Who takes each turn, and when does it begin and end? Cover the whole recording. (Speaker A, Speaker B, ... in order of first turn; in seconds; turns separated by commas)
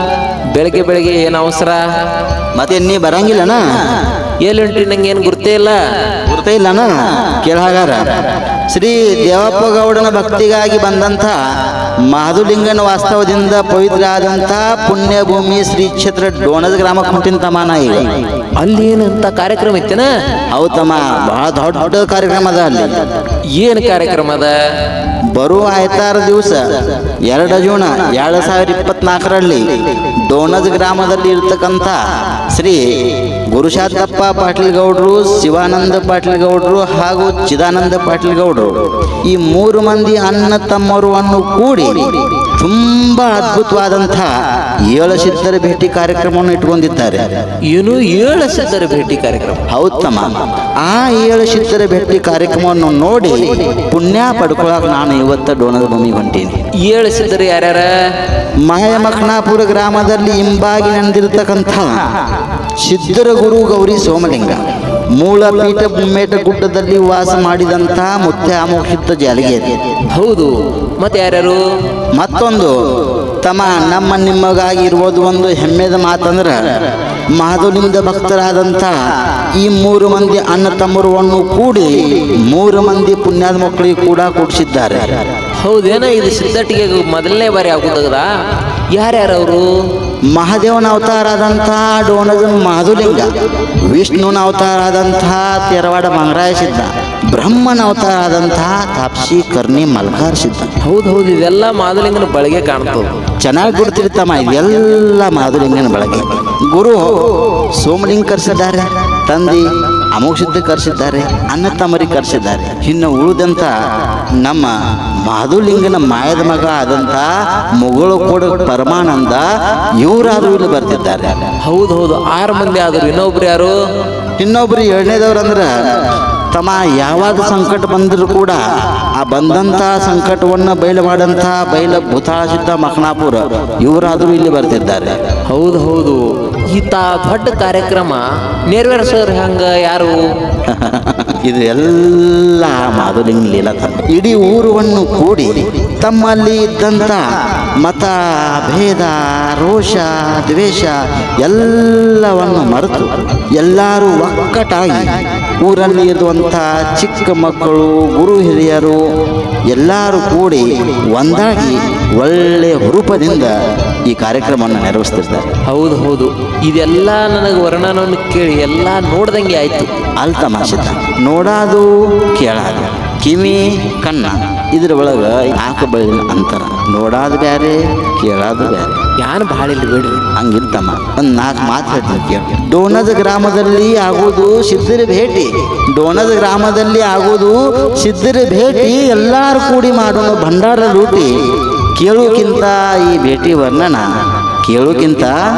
Speaker A: 0.5-1.8, Speaker B: 2.5-4.0, Speaker A: 4.4-5.8, Speaker B: 6.3-11.4, Speaker B: 12.1-18.2, Speaker A: 18.6-20.1, Speaker B: 20.5-23.1, Speaker A: 23.5-24.5, Speaker B: 25.3-32.8, Speaker B: 33.5-44.3, Speaker B: 44.9-47.2, Speaker A: 47.7-49.6, Speaker B: 49.7-56.5, Speaker A: 56.8-57.9, Speaker B: 58.6-62.1, Speaker B: 62.8-64.6, Speaker B: 65.2-69.8, Speaker A: 70.1-71.6, Speaker B: 72.1-72.8, Speaker B: 73.4-76.8, Speaker B: 77.3-79.0, Speaker B: 79.6-85.2, Speaker A: 85.6-88.3, Speaker A: 88.9-89.7, Speaker B: 90.3-93.3, Speaker B: 93.9-100.7, Speaker A: 100.8-103.1, Speaker B: 103.4-113.7, Speaker B: 114.4-119.5, Speaker B: 120.0-121.4, Speaker A: 121.6-123.8, Speaker B: 124.4-125.7, Speaker B: 126.5-128.6, Speaker B: 129.2-135.2, Speaker A: 135.5-140.2, Speaker B: 140.7-159.0, Speaker B: 159.7-163.5, Speaker B: 164.1-165.5, Speaker A: 165.7-169.9, Speaker B: 170.2-179.0, Speaker A: 179.2-180.3, Speaker B: 180.3-191.3, Speaker B: 191.9-194.1, Speaker B: 194.6-195.4